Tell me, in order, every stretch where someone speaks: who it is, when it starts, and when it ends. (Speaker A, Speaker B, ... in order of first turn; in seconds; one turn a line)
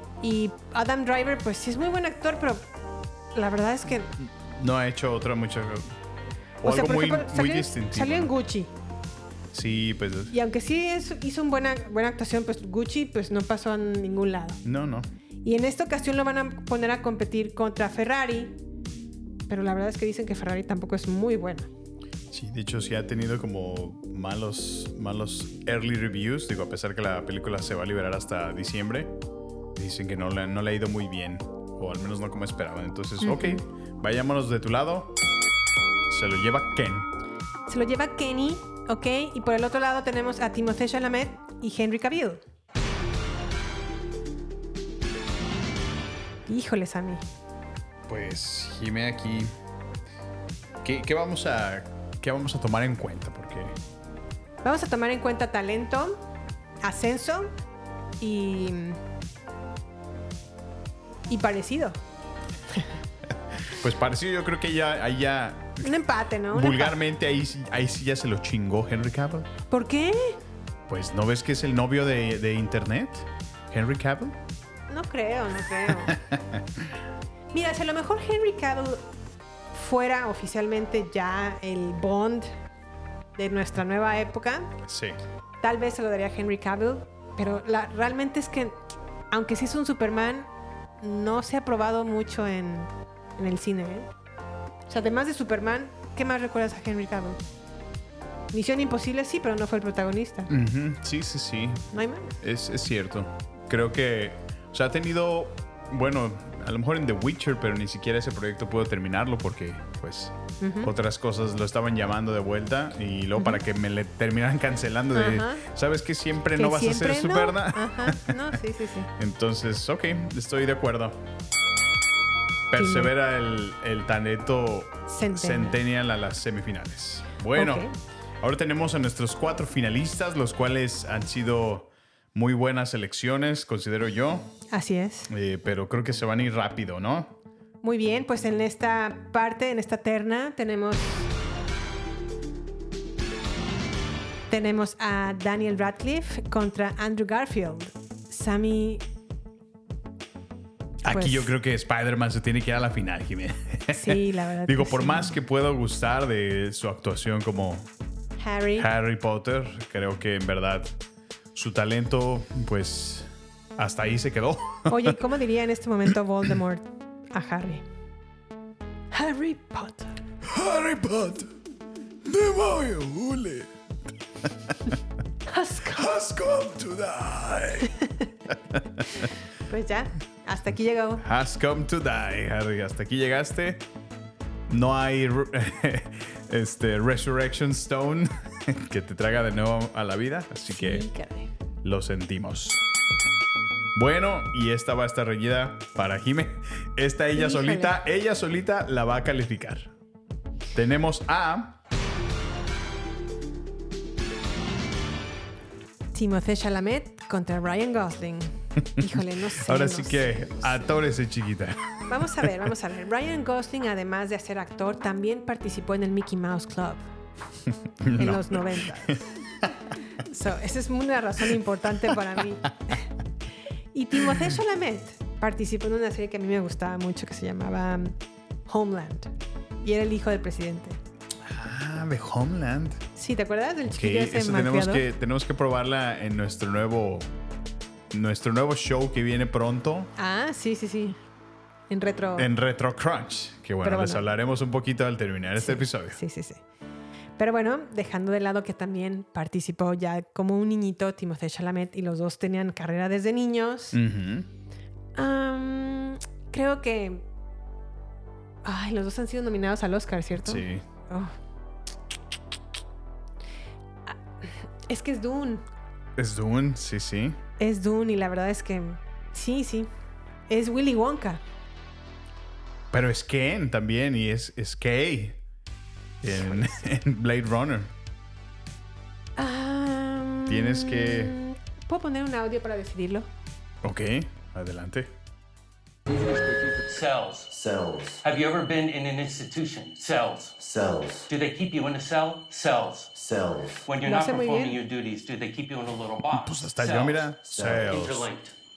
Speaker A: 0.2-2.6
Speaker A: 3.3-4.1
Speaker B: 4.2-5.9
Speaker B: 6.6-8.3
Speaker A: 6.6-8.7
Speaker B: 9.5-10.3
Speaker A: 10.3-14.6
Speaker B: 14.6-15.1
Speaker A: 15.4-18.5
Speaker A: 19.5-21.7
Speaker B: 22.3-29.1
Speaker B: 29.8-35.1
Speaker A: 33.2-33.6
Speaker B: 36.1-37.1
Speaker A: 37.7-42.4
Speaker A: 46.5-47.2
Speaker B: 48.1-49.5
Speaker B: 50.8-53.7
Speaker A: 54.6-56.2
Speaker A: 56.8-57.5
Speaker A: 58.2-59.0
Speaker A: 61.3-62.0
Speaker B: 63.7-65.9
Speaker A: 65.8-66.9
Speaker B: 66.5-69.5
Speaker A: 69.7-70.4
Speaker B: 70.9-74.4
Speaker A: 74.9-76.2
Speaker B: 75.9-76.8
Speaker A: 77.5-79.0
Speaker A: 79.7-82.5
Speaker A: 83.3-84.7
Speaker B: 84.9-85.2
Speaker A: 85.6-88.8
Speaker A: 89.3-90.5
Speaker A: 91.0-94.1
Speaker A: 94.9-97.4
Speaker A: 98.5-100.5
Speaker B: 100.5-118.5
Speaker A: 101.9-102.4
Speaker A: 110.6-110.9
Speaker A: 115.1-115.6
Speaker A: 116.5-119.1
Speaker B: 119.2-121.2
Speaker B: 122.7-127.9
Speaker A: 122.7-123.1
Speaker A: 125.1-125.8
Speaker A: 127.5-127.9
Speaker B: 128.4-134.6
Speaker A: 134.7-135.3
Speaker B: 135.3-137.3
Speaker A: 137.8-141.3
Speaker A: 144.5-149.0
Speaker B: 151.0-157.9
Speaker A: 151.1-151.5
Speaker A: 153.9-155.3
Speaker A: 158.4-158.9
Speaker B: 158.8-160.9
Speaker B: 161.5-165.2
Speaker A: 164.9-167.8
Speaker A: 169.1-170.2
Speaker B: 170.4-171.5
Speaker B: 172.2-173.7
Speaker A: 175.5-176.1
Speaker B: 175.9-178.0
Speaker B: 178.7-179.3
Speaker A: 179.7-181.2
Speaker B: 181.2-183.8
Speaker B: 184.7-191.0
Speaker A: 190.7-191.5
Speaker B: 191.8-192.8
Speaker B: 193.9-199.9
Speaker A: 197.3-198.0
Speaker B: 200.7-201.8
Speaker A: 206.1-211.0
Speaker B: 209.6-212.5
Speaker A: 212.1-217.1
Speaker B: 218.0-219.2
Speaker A: 218.2-219.2
Speaker A: 220.2-223.0
Speaker A: 223.9-228.2
Speaker A: 228.7-229.3
Speaker A: 229.8-231.0
Speaker B: 231.4-233.0
Speaker A: 233.2-235.0
Speaker B: 233.9-237.3
Speaker B: 238.1-240.1
Speaker A: 240.2-241.2
Speaker A: 241.9-242.5
Speaker B: 242.4-246.2
Speaker A: 243.8-244.3
Speaker A: 245.6-246.6
Speaker A: 247.4-254.0
Speaker B: 253.9-254.5
Speaker A: 255.2-257.2
Speaker A: 258.6-261.3
Speaker B: 260.4-260.8
Speaker A: 264.1-265.6
Speaker B: 266.2-267.4
Speaker A: 267.6-269.9
Speaker A: 270.5-271.4
Speaker B: 272.9-275.4
Speaker B: 276.2-277.9
Speaker A: 276.3-276.6
Speaker A: 279.4-283.3
Speaker B: 280.5-281.3
Speaker B: 283.8-285.1
Speaker C: 286.1-287.5
Speaker D: 287.5-288.2
Speaker C: 288.2-290.5
Speaker D: 290.6-291.3
Speaker C: 291.3-293.1
Speaker D: 293.1-293.9
Speaker C: 293.8-297.3
Speaker A: 294.0-294.8
Speaker B: 296.3-298.3
Speaker D: 297.4-298.0
Speaker C: 297.9-298.5